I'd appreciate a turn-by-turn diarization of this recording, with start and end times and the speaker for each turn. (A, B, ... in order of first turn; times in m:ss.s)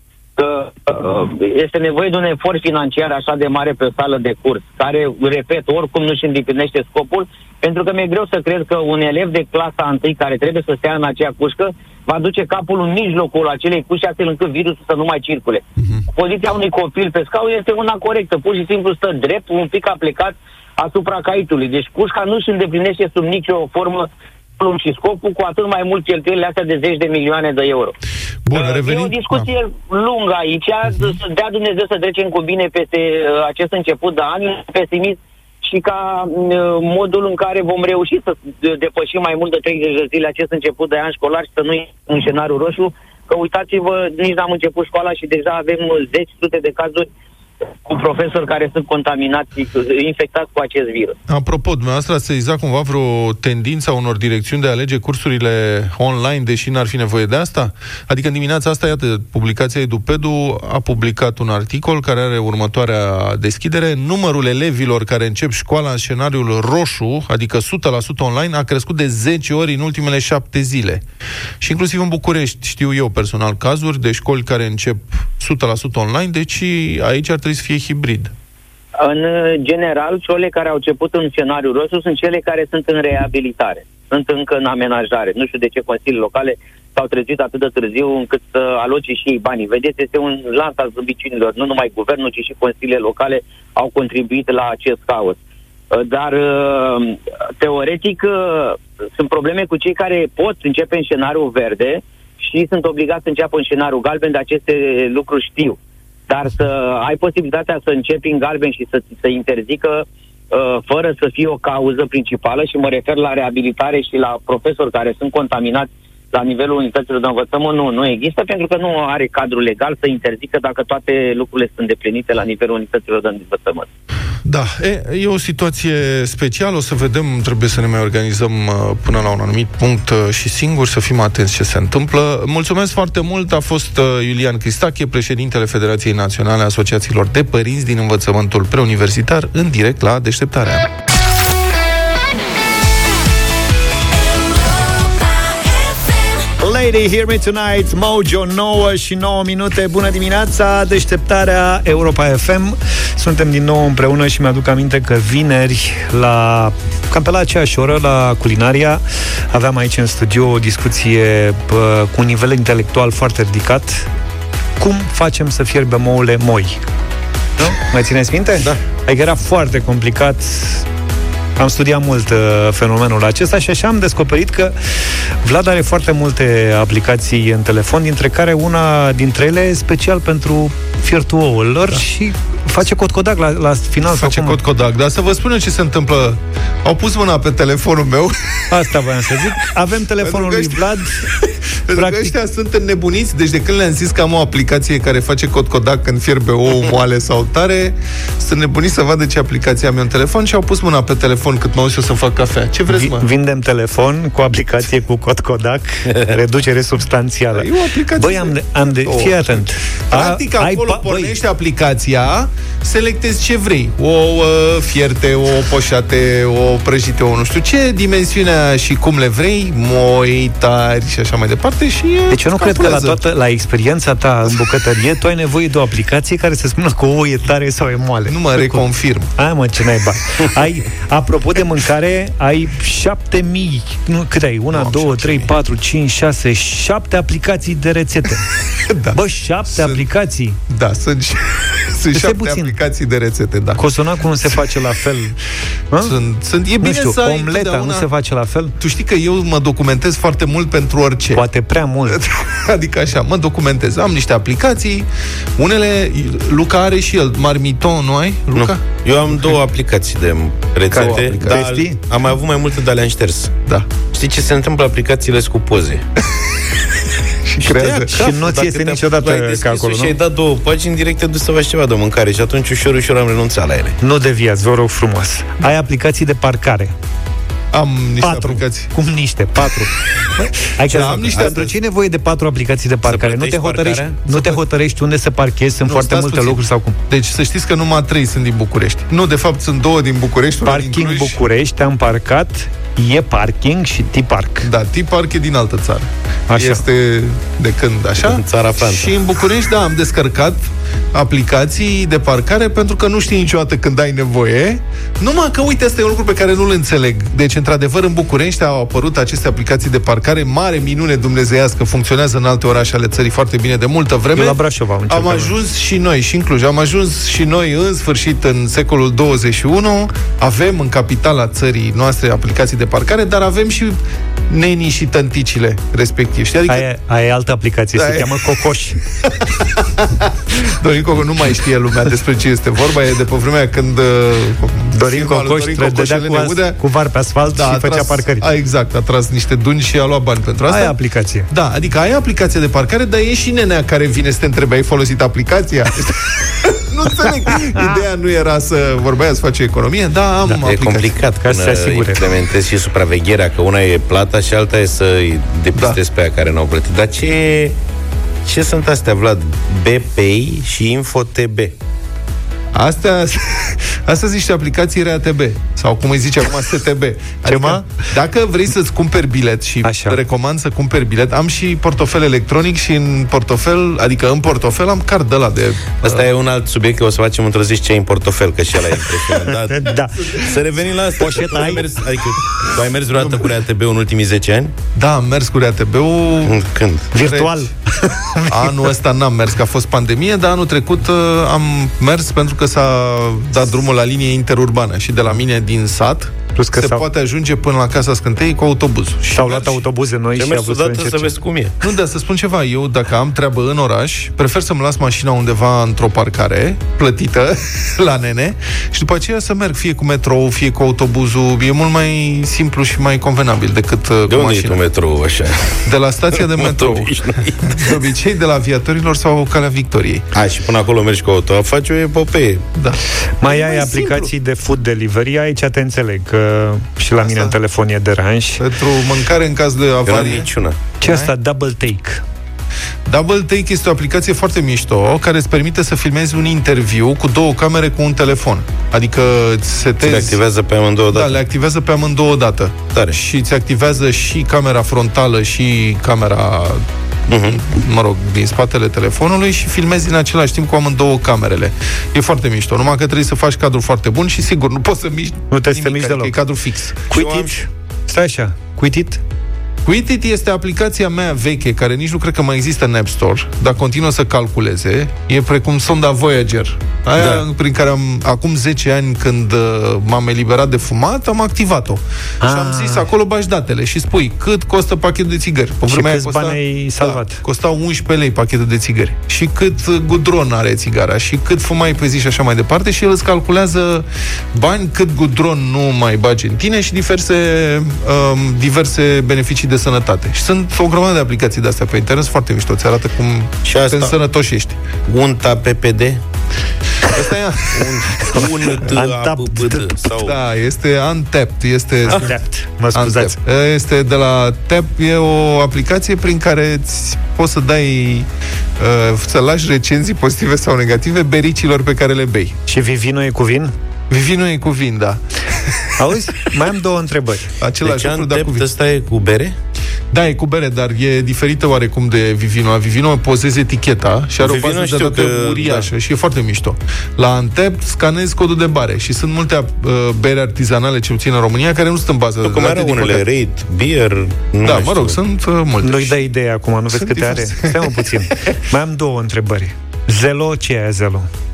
0:00.4-0:28.0 A
0:15.8-0:16.0 B
0:28.5-0:29.5 B
0:28.5-0:47.1 A
0:47.9-0:51.2 A
0:51.3-1:11.0 B
1:11.6-1:18.3 B
1:19.0-1:35.4 A
1:35.9-2:03.9 A
2:04.4-2:20.9 B
2:26.6-2:44.1 C
2:44.8-2:46.8 C
2:47.6-2:50.8 C
2:51.6-2:54.8 C
2:55.4-3:04.6 C
3:04.1-3:08.6 B
3:08.7-3:11.3 C
3:10.2-3:23.3 B
3:12.0-3:12.3 C
3:22.9-3:31.4 C
3:27.5-3:43.2 B
3:42.3-3:48.8 C
3:48.3-3:49.3 B
3:49.4-3:58.5 C
3:54.7-3:55.5 B
3:58.7-4:00.0 B
3:59.1-4:00.6 C
4:00.7-4:03.8 B
4:02.1-4:02.8 C
4:03.8-4:05.4 C
4:04.4-4:04.8 B
4:06.0-4:08.1 B
4:06.8-4:08.8 C
4:08.8-4:11.4 B
4:11.3-4:12.2 C
4:12.1-4:18.8 B
4:18.6-4:23.6 D
4:20.9-4:21.6 B
4:21.0-4:22.0 C
4:23.6-4:23.9 B
4:24.1-4:26.0 D
4:27.5-4:28.1 B
4:27.7-4:34.0 D
4:27.7-4:30.1 C
4:34.0-4:36.9 C
4:37.7-4:38.9 B
4:38.2-4:39.9 C
4:40.6-4:47.0 C
4:40.8-4:41.7 B
4:43.0-4:44.2 D
4:44.3-4:44.6 B
4:45.8-4:51.4 B
4:50.6-4:54.7 C
4:54.6-5:24.0 B
4:56.5-4:56.8 C
4:58.2-4:59.2 D
5:14.4-5:15.6 C
5:24.5-5:26.9 B
5:26.7-5:29.0 C
5:28.0-5:28.6 B
5:29.2-5:36.8 B
5:34.9-5:38.5 C
5:37.5-5:41.0 B
5:40.7-5:41.5 C
5:41.5-5:51.1 B
5:50.6-5:57.8 D
5:51.4-5:52.2 C
5:58.5-6:01.7 D
6:02.7-6:16.3 B
6:07.5-6:07.8 C
6:09.8-6:10.2 C
6:16.0-6:24.7 D
6:19.5-6:20.4 C
6:21.2-6:21.8 C
6:23.2-6:23.5 B
6:25.0-6:26.6 B
6:26.5-6:27.1 D
6:27.1-6:28.9 C
6:27.2-6:27.7 B
6:28.5-6:39.9 B
6:36.6-6:37.1 C
6:39.3-6:41.3 C
6:40.4-6:41.8 D
6:41.8-6:54.8 B
6:54.3-6:55.8 D
6:55.8-7:00.3 B
6:56.4-6:58.0 D
7:00.3-7:02.7 D
7:02.8-7:04.3 B
7:03.4-7:08.6 C
7:07.2-7:07.6 B
7:08.6-7:10.5 B
7:10.0-7:10.8 D
7:11.0-7:12.2 C
7:11.0-7:11.3 B
7:13.1-7:20.4 B
7:20.0-7:21.4 D
7:21.1-7:37.6 B
7:27.3-7:27.6 D
7:35.5-7:36.4 C
7:37.1-7:39.2 C
7:39.8-8:14.8 B
7:52.4-7:53.1 C
7:55.9-7:57.4 C
8:13.6-8:14.2 D
8:15.1-8:16.2 D
8:17.1-8:18.2 B
8:17.7-8:20.4 D
8:18.2-8:19.8 C
8:20.1-8:22.3 B
8:22.1-8:23.4 C
8:22.9-8:28.3 B
8:28.8-8:32.6 B
8:32.7-8:33.8 C
8:34.1-8:35.2 B
8:36.0-8:37.5 C
8:37.6-8:38.7 B
8:37.8-8:39.6 D
8:40.1-8:53.3 B
8:44.4-8:45.9 D
8:52.4-8:55.2 D
8:54.6-8:56.2 B
8:55.8-9:01.3 C
8:56.9-8:58.5 B